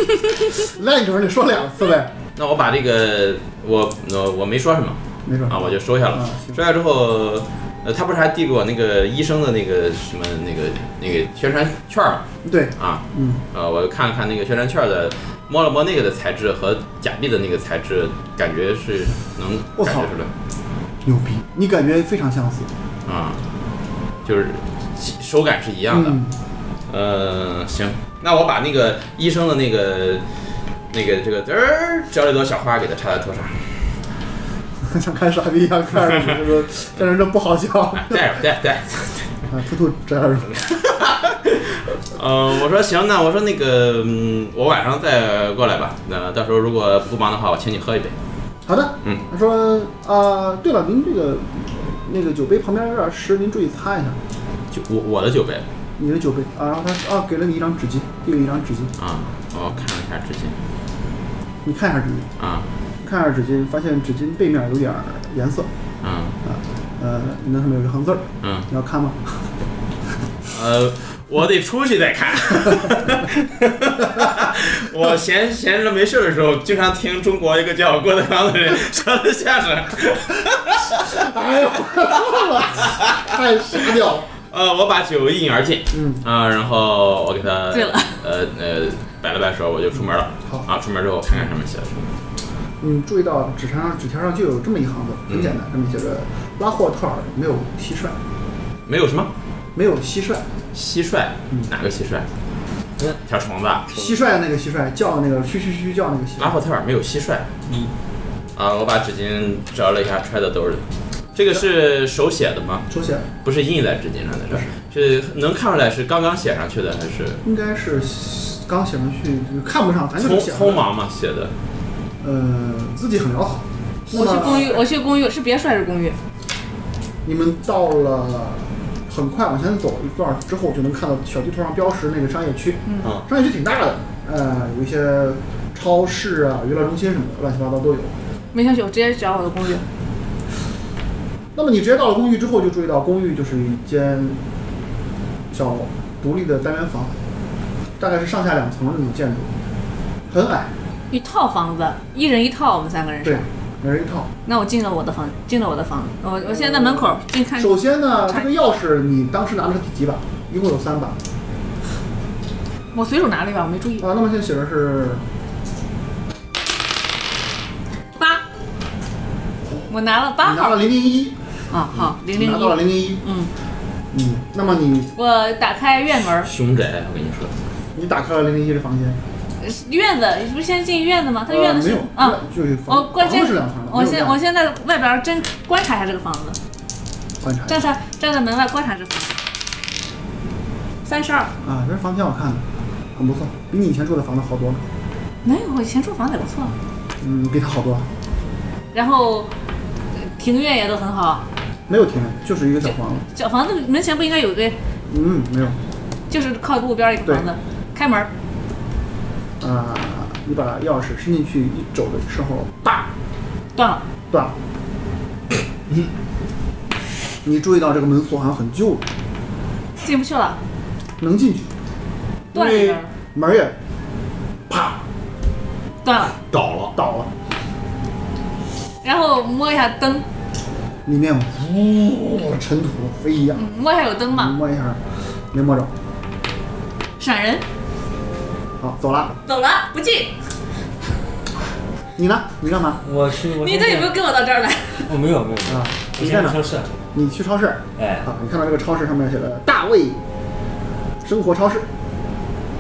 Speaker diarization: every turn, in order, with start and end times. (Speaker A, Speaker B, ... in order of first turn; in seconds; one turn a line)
Speaker A: 0.6-2.1
Speaker B: 2.4-12.2
Speaker A: 5.2-6.5
Speaker A: 12.4-13.4
Speaker B: 12.8-20.3
Speaker A: 19.8-20.1
Speaker A: 21.0-22.7
Speaker B: 23.1-23.4
Speaker B: 24.2-26.2
Speaker A: 25.9-26.3
Speaker B: 26.9-30.2
Speaker B: 30.9-33.8
Speaker A: 34.8-38.2
Speaker B: 37.9-39.4
Speaker A: 39.5-40.8
Speaker B: 40.5-48.1
Speaker A: 48.6-54.2
Speaker B: 54.7-55.6
Speaker A: 56.0-58.9
Speaker B: 59.0-60.5
Speaker A: 61.6-62.3
Speaker B: 62.4-62.6
Speaker A: 63.0-65.7
Speaker B: 66.0-66.3
Speaker A: 66.4-69.4
Speaker B: 68.4-68.7
Speaker B: 70.5-81.2
Speaker A: 81.0-84.3
Speaker B: 82.3-83.2
Speaker B: 84.5-92.1
Speaker A: 85.9-86.2
Speaker C: 87.7-88.2
Speaker A: 92.8-98.2
Speaker B: 95.3-95.5
Speaker B: 98.9-99.3
Speaker A: 99.7-100.4
Speaker B: 100.7-102.3
Speaker B: 103.0-104.0
Speaker A: 103.9-106.6
Speaker B: 106.4-107.6
Speaker B: 108.5-110.8
Speaker B: 111.3-112.8
Speaker A: 112.9-113.3
Speaker B: 113.4-117.4
Speaker A: 117.4-120.8
Speaker B: 120.2-121.5
Speaker A: 122.2-124.8
Speaker C: 124.1-126.2
Speaker A: 127.2-138.1
Speaker C: 132.9-133.1
Speaker C: 138.5-139.8
Speaker A: 141.5-144.4
Speaker A: 145.5-147.2
Speaker A: 148.0-149.5
Speaker A: 150.3-150.7
Speaker C: 151.1-153.4
Speaker A: 153.2-154.3
Speaker C: 154.4-158.5
Speaker A: 156.4-161.2
Speaker C: 162.9-164.1
Speaker A: 164.0-165.2
Speaker C: 168.2-168.4
Speaker C: 169.9-170.8
Speaker A: 170.4-171.3
Speaker C: 171.7-173.5
Speaker A: 171.9-173.2
Speaker A: 174.1-175.1
Speaker C: 175.2-176.5
Speaker B: 176.4-177.5
Speaker A: 177.9-179.2
Speaker C: 179.6-186.6
Speaker A: 181.5-184.4
Speaker A: 187.4-187.8
Speaker C: 187.7-189.4
Speaker C: 191.0-191.5
Speaker A: 191.6-192.6
Speaker A: 193.1-194.8
Speaker C: 195.4-196.7
Speaker A: 197.2-198.1
Speaker C: 198.9-199.5
Speaker C: 200.2-201.4
Speaker A: 201.9-203.2
Speaker C: 203.3-204.7
Speaker A: 205.1-205.8
Speaker C: 206.3-208.3
Speaker A: 209.6-212.8
Speaker C: 213.7-214.0
Speaker A: 217.4-219.0
Speaker C: 220.0-220.6
Speaker A: 221.2-221.7
Speaker C: 222.5-223.1
Speaker A: 222.5-223.7
Speaker B: 224.7-224.9
Speaker C: 226.0-226.4
Speaker B: 226.5-226.9
Speaker A: 226.9-227.3
Speaker C: 229.0-230.2
Speaker A: 231.1-233.7
Speaker C: 233.5-234.5
Speaker A: 234.3-235.0
Speaker A: 235.5-235.9
Speaker C: 237.2-237.6
Speaker A: 238.8-239.4
Speaker C: 239.4-240.3
Speaker A: 242.2-243.0
Speaker D: 243.0-244.1
Speaker C: 243.6-245.1
Speaker D: 245.1-246.9
Speaker A: 245.7-246.6
Speaker A: 247.1-250.2
Speaker D: 248.0-248.3
Speaker A: 251.2-251.8